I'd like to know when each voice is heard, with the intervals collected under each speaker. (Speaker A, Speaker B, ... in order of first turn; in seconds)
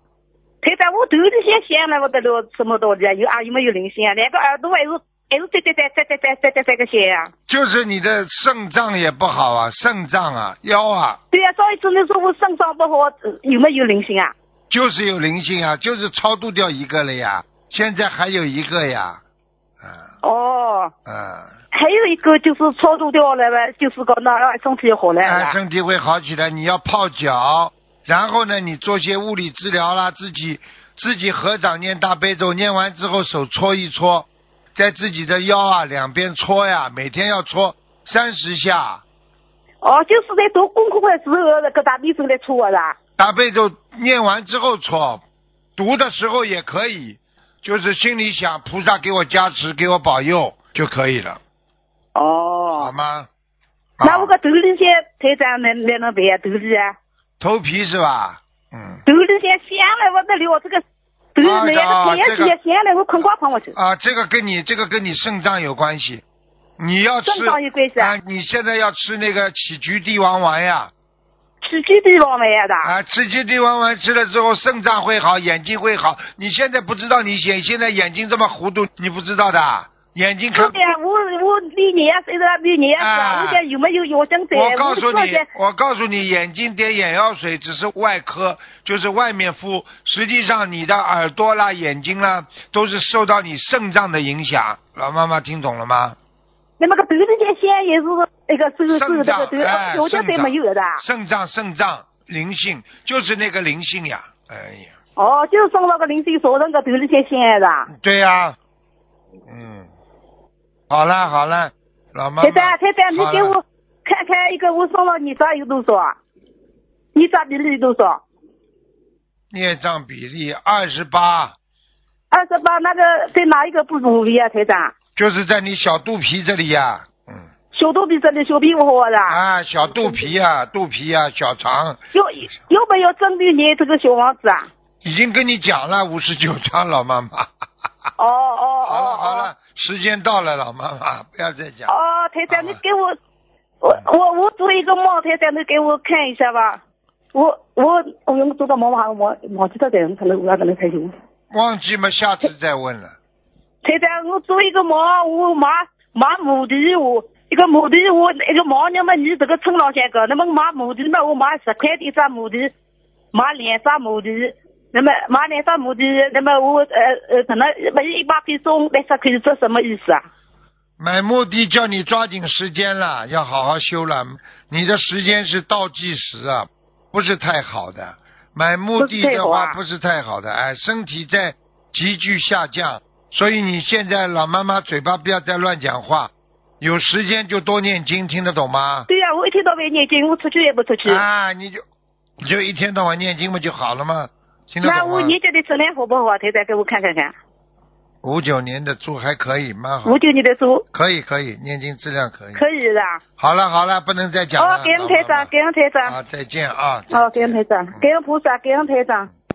Speaker A: 0.6-7.3, 11.3-14.3, 20.2-20.9, 21.7-25.6, 39.8-43.0, 52.1-52.9, 54.0-56.9, 59.0-60.8, 61.3-63.7, 67.2-68.1, 71.6-72.9, 80.5-85.5, 96.8-101.0, 105.2-107.9, 112.4-116.2, 117.1-118.2, 122.3-124.9, 127.7-129.4, 132.1-134.7, 138.2-139.5, 141.9-143.1, 143.8-146.8, 147.3-151.2, 153.8-162.7, 163.3-170.2, 179.0-179.8, 189.1-191.2, 194.8-197.3, 200.1-200.8, 202.6-203.2, 204.6-206.1, 207.1-209.3
Speaker B: 7.5-11.2, 14.7-19.2, 19.8-20.1, 21.1-21.5, 25.2-39.0, 43.2-45.2, 45.8-51.4, 52.8-53.3, 54.0-54.3, 57.4-59.0, 61.4-62.5, 63.7-66.2, 66.8-70.9, 72.8-80.8, 83.0-83.6, 84.5-96.2, 98.9-104.9, 107.9-108.6, 109.5-109.9, 110.9-113.5, 119.5-121.5, 125.2-127.5, 129.3-132.0, 135.0-137.5, 138.8-141.9, 142.5-142.8, 151.5-153.1, 171.0-189.1, 191.0-191.8, 192.4-195.3, 198.2-200.2, 200.9-202.6, 203.4-205.5, 206.0-208.0